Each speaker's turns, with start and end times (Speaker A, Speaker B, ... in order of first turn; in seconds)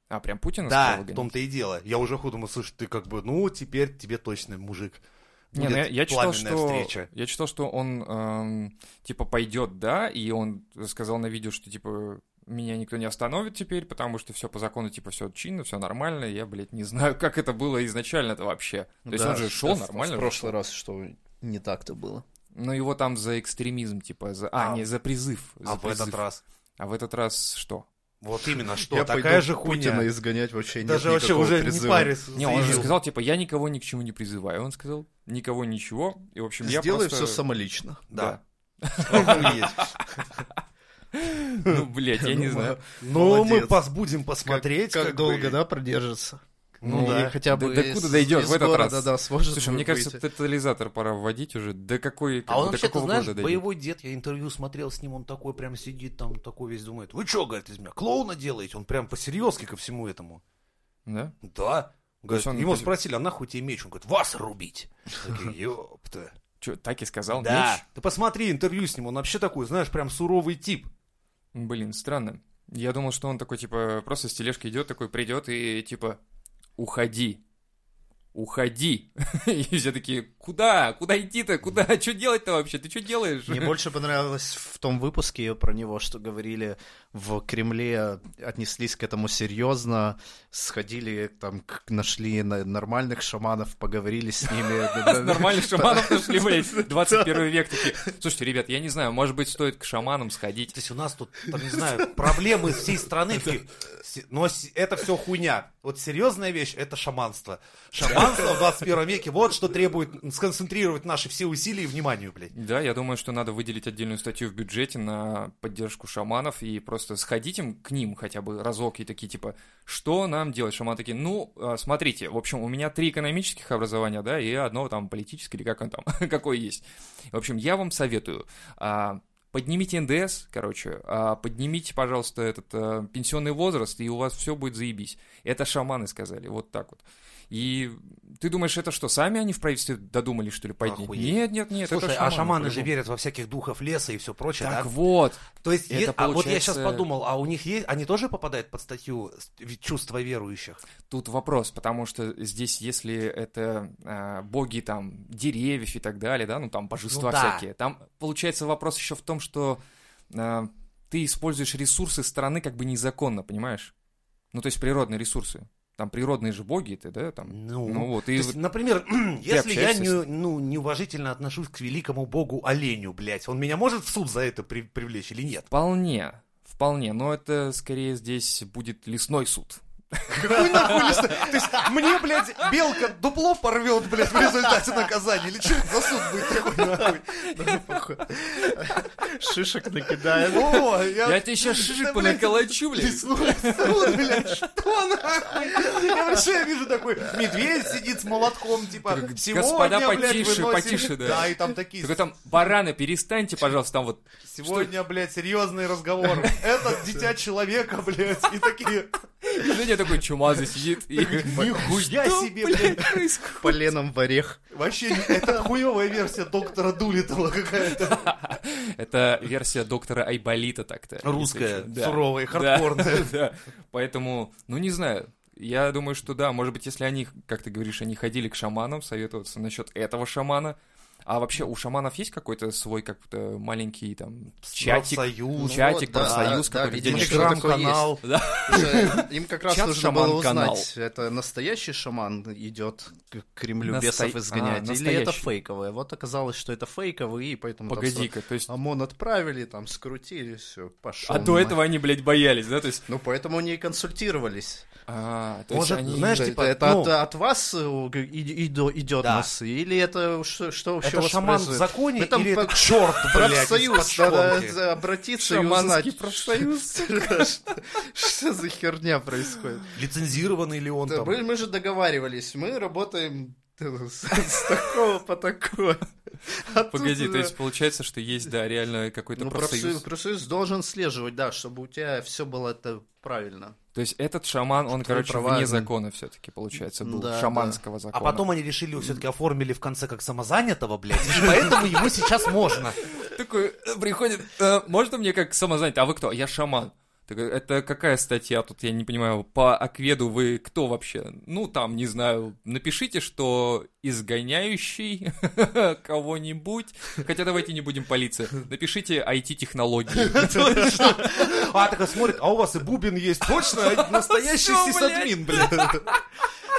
Speaker A: 0.1-1.3, 5.5-20.5, 22.6-26.2, 26.8-27.9, 32.4-37.4, 38.1-40.6, 41.1-42.8, 46.9-53.6, 61.1-61.4, 62.3-62.9, 66.6-67.8, 71.5-76.2, 76.8-77.4, 78.3-83.8, 94.6-100.8, 112.5-142.9, 144.6-147.1, 151.1-163.9, 164.5-168.6, 169.5-170.2, 175.7-181.2, 191.2-194.6, 199.1-204.9, 209.4-213.8, 217.9-237.6, 238.2-240.9, 243.8-245.5, 247.9-248.7, 251.2-253.0, 255.1-256.5, 265.4-267.5, 276.9-280.0, 283.9-288.5, 293.1-311.7, 313.7-316.2
Speaker B: 0.7-7.1, 24.6-24.9, 25.6-26.4, 28.2-30.1, 30.8-32.9, 38.1-38.4, 39.1-39.8, 43.0-45.6, 46.8-47.4, 52.5-60.4, 61.4-66.3, 67.3-70.9, 100.7-112.5, 140.8-144.9, 145.6-150.8, 157.1-157.7, 167.5-175.7, 180.3-187.3, 190.5-202.2, 204.5-209.7, 211.2-213.2, 214.7-218.2, 221.2-223.3, 234.7-238.2, 255.7-257.1, 259.2-259.5, 261.0-264.8, 269.9-271.4, 288.1-293.0, 310.2-316.1
Speaker C: 19.1-22.2, 28.8-32.9, 36.6-38.0, 42.2-43.8, 44.5-50.2, 83.5-98.1, 185.9-190.9, 213.6-215.7, 235.6-251.8, 253.1-254.9, 256.2-270.0, 271.1-277.5, 279.4-283.8, 284.9-285.9, 286.9-287.8